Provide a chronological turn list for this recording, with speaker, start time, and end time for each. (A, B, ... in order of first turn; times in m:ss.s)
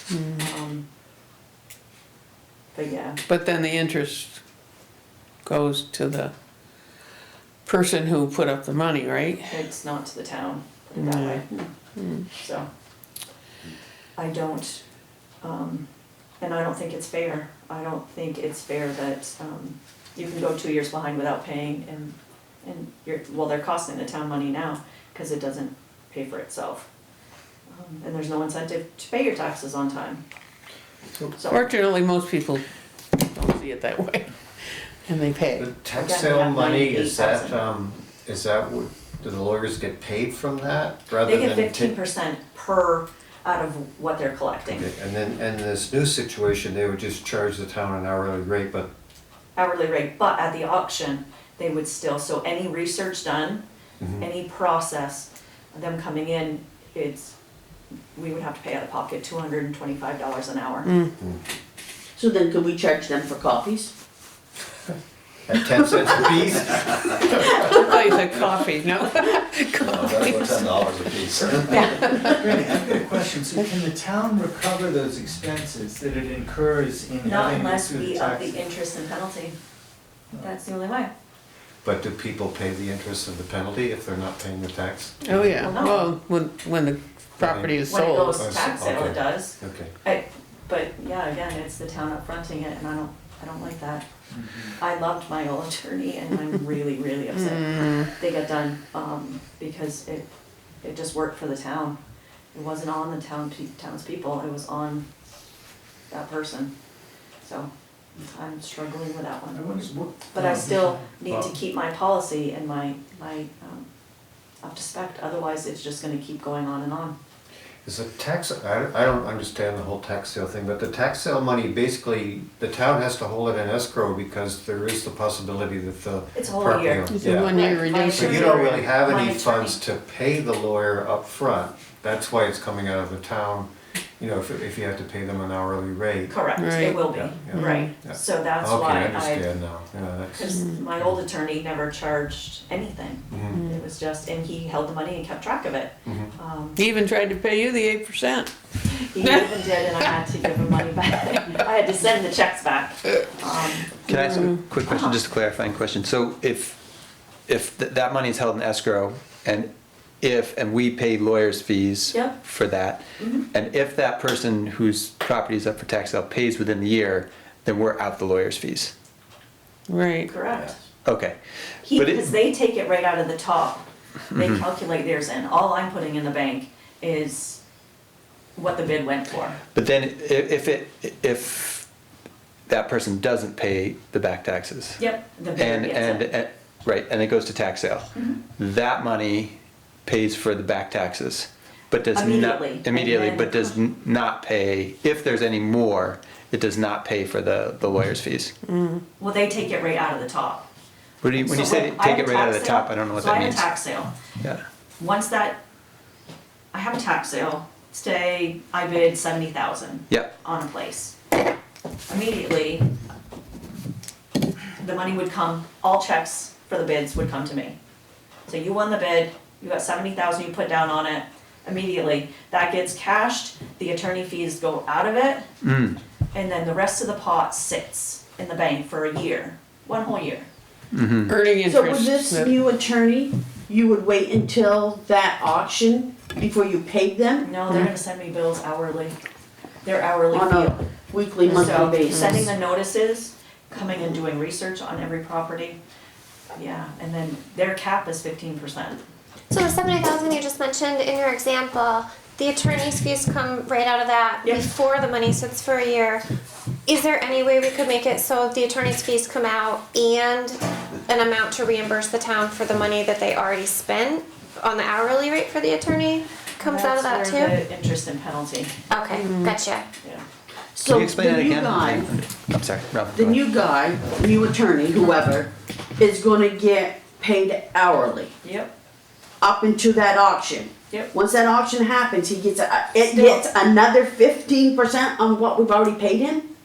0:00.1-0:00.4 A
0:00.3-0:00.8 B
0:02.7-0:03.2 B
0:03.3-0:04.4 A
0:05.4-0:06.3 A
0:07.7-0:09.6 A
0:09.5-0:11.7 B
0:11.0-0:11.5 A
0:12.0-0:12.3 A
0:12.3-0:12.7 B
0:14.2-0:14.8 B
0:15.4-0:15.9 B
0:16.4-0:26.9 B
0:27.7-0:30.2 B
0:31.4-0:31.7 B
0:31.5-0:34.3 A
0:35.0-0:35.7 A
0:35.6-0:42.0 C
0:36.0-0:37.6 B
0:41.2-0:44.9 B
0:44.7-0:48.9 C
0:49.6-0:53.6 B
0:54.0-0:54.3 C
0:54.2-0:57.3 B
0:58.2-1:00.9 B
1:02.2-1:03.9 D
1:05.5-1:07.9 C
1:07.5-1:11.3 A
1:10.0-1:11.8 C
1:11.4-1:18.7 E
1:17.2-1:19.6 B
1:20.4-1:21.1 B
1:21.8-1:25.7 C
1:25.2-1:28.4 A
1:25.6-1:26.1 B
1:27.4-1:27.8 C
1:27.8-1:34.0 B
1:28.3-1:29.9 C
1:34.3-1:34.8 E
1:34.8-1:40.3 B
1:37.3-1:38.1 A
1:40.8-1:42.0 B
1:42.5-1:45.1 B
1:46.1-1:46.7 B
1:47.4-1:47.7 B
1:48.2-1:53.9 B
1:49.5-1:51.5 E
1:54.6-1:57.2 B
1:57.8-2:07.6 C
2:06.4-2:09.8 B
2:07.1-2:08.6 A
2:08.2-2:16.4 C
2:16.3-2:19.5 B
2:16.6-2:17.9 A
2:17.1-2:20.6 C
2:20.4-2:26.8 B
2:20.5-2:20.8 A
2:23.3-2:23.6 C
2:23.5-2:23.8 A
2:26.0-2:26.3 C
2:26.8-2:28.5 A
2:28.9-2:34.0 B
2:29.2-2:29.5 A
2:34.1-2:36.8 F
2:34.1-2:34.4 A
2:34.8-2:35.2 B
2:37.5-2:39.7 F
2:40.2-2:48.9 F
2:42.1-2:42.4 B
2:43.2-2:43.5 B
2:49.9-2:50.3 A
2:50.3-2:50.8 B
2:51.0-2:51.4 F
2:51.8-2:57.6 B
2:51.9-2:52.3 F
2:58.6-2:59.6 B
2:59.7-3:01.8 F
3:02.7-3:05.0 F
3:05.0-3:06.3 B
3:05.6-3:18.5 F
3:12.1-3:13.8 B
3:18.7-3:19.0 A
3:19.2-3:20.6 B
3:21.2-3:23.8 F
3:21.4-3:24.1 B
3:25.0-3:25.6 B
3:26.7-3:31.2 B
3:32.1-3:32.9 B
3:34.8-3:37.8 B
3:38.5-3:45.5 B
3:45.6-3:46.0 F
3:46.3-3:50.5 B
3:50.9-3:51.3 F
3:51.3-3:52.6 A
3:51.6-3:57.5 D
3:57.4-3:59.2 B
3:59.8-4:00.8 B
4:00.3-4:02.5 D
4:01.5-4:02.4 A
4:01.5-4:05.8 B
4:06.6-4:09.0 B
4:09.5-4:16.2 G
4:16.9-4:27.6 G
4:26.6-4:28.7 B
4:28.9-4:29.9 G
4:29.1-4:29.6 A
4:30.7-4:32.1 D
4:30.8-4:33.4 F
4:33.1-4:38.3 D
4:38.4-4:38.7 B
4:39.4-4:46.5 D
4:43.1-4:43.5 B